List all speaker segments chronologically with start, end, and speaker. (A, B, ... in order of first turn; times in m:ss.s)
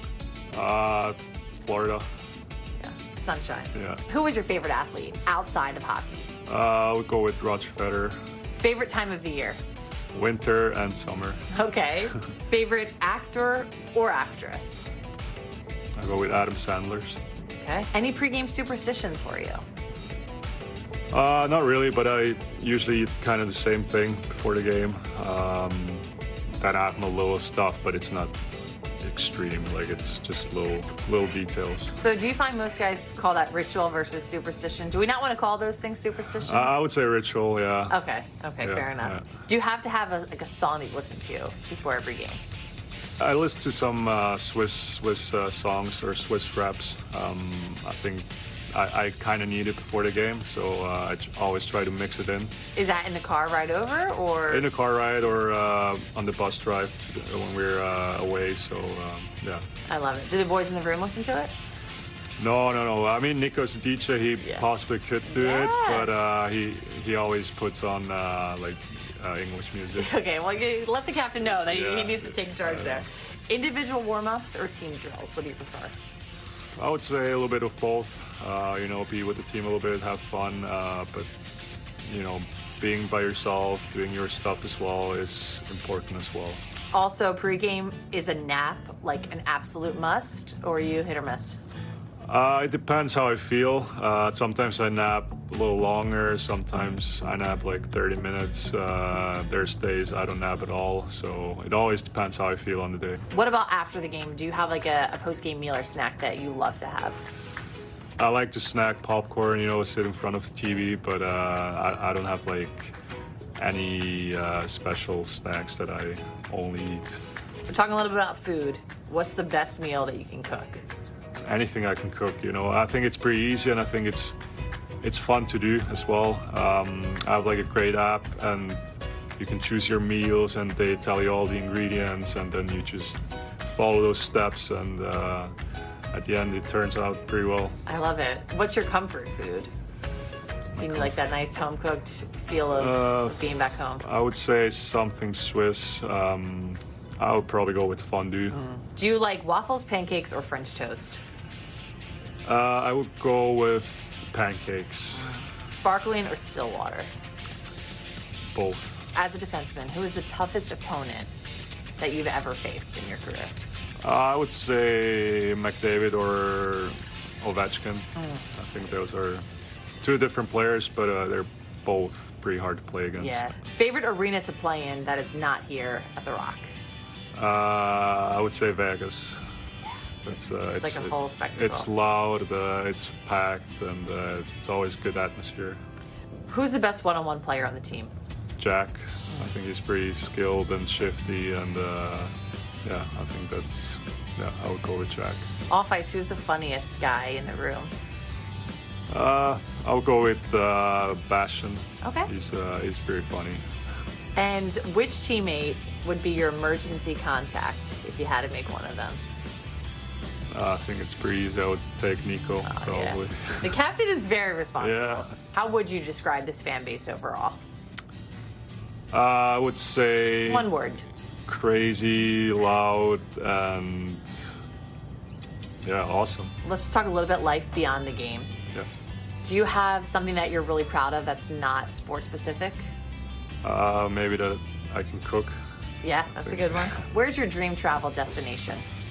0:00.5-0:02.0 A
0:02.8-0:06.3 B
0:03.7-0:04.0 A
0:06.4-0:08.2 A
0:08.5-0:09.6 B
0:10.1-0:11.4 A
0:11.5-0:14.8 B
0:16.0-0:17.2 A
0:17.6-0:19.6 B
0:21.1-0:26.0 A
0:26.6-0:28.4 A
0:29.0-0:32.0 A
0:31.9-0:36.8 B
0:36.4-0:38.0 A
0:37.9-0:42.4 B
0:38.6-0:39.2 A
0:43.2-0:52.5 A
0:52.7-0:54.7 B
0:54.5-0:59.6 A
0:59.9-1:01.5 B
1:02.4-1:10.1 A
1:05.3-1:06.1 B
1:10.0-1:16.0 B
1:11.5-1:13.0 A
1:16.8-1:26.6 A
1:26.9-1:31.6 B
1:32.3-1:43.2 A
1:43.3-1:47.2 B
1:48.2-1:53.0 A
1:53.6-1:57.2 A
1:57.7-2:00.8 B
2:01.4-2:04.4 A
2:05.0-2:08.8 A
2:09.4-2:15.5 A
2:16.1-2:17.8 A
2:17.8-2:19.7 B
2:20.8-2:21.3 A
2:20.8-2:24.0 B
2:22.7-2:28.6 A
2:28.5-2:31.2 B
2:32.4-2:35.4 A
2:35.2-2:37.1 B
2:38.5-2:39.1 A
2:39.1-2:41.3 B
2:42.0-2:43.5 B
2:44.0-2:49.4 A
2:48.2-2:48.4 B
2:50.0-2:53.5 A
2:53.2-2:56.7 B
2:57.3-2:59.4 A
3:00.2-3:05.8 A
3:00.5-3:01.9 B
3:06.5-3:08.1 B
3:08.6-3:15.4 A
3:15.7-3:17.9 B
3:19.1-3:23.6 A
3:22.0-3:22.3 B
3:24.4-3:29.2 B
3:30.5-3:33.7 A
3:32.6-3:37.6 B
3:34.8-3:35.3 A
3:39.1-3:40.7 A
3:40.4-3:41.0 B
3:41.5-3:44.6 A
3:45.8-3:46.5 A
3:46.6-3:48.5 B
3:49.4-3:52.9 B
3:53.6-3:55.6 A
3:56.0-3:58.8 B
3:56.4-3:57.0 A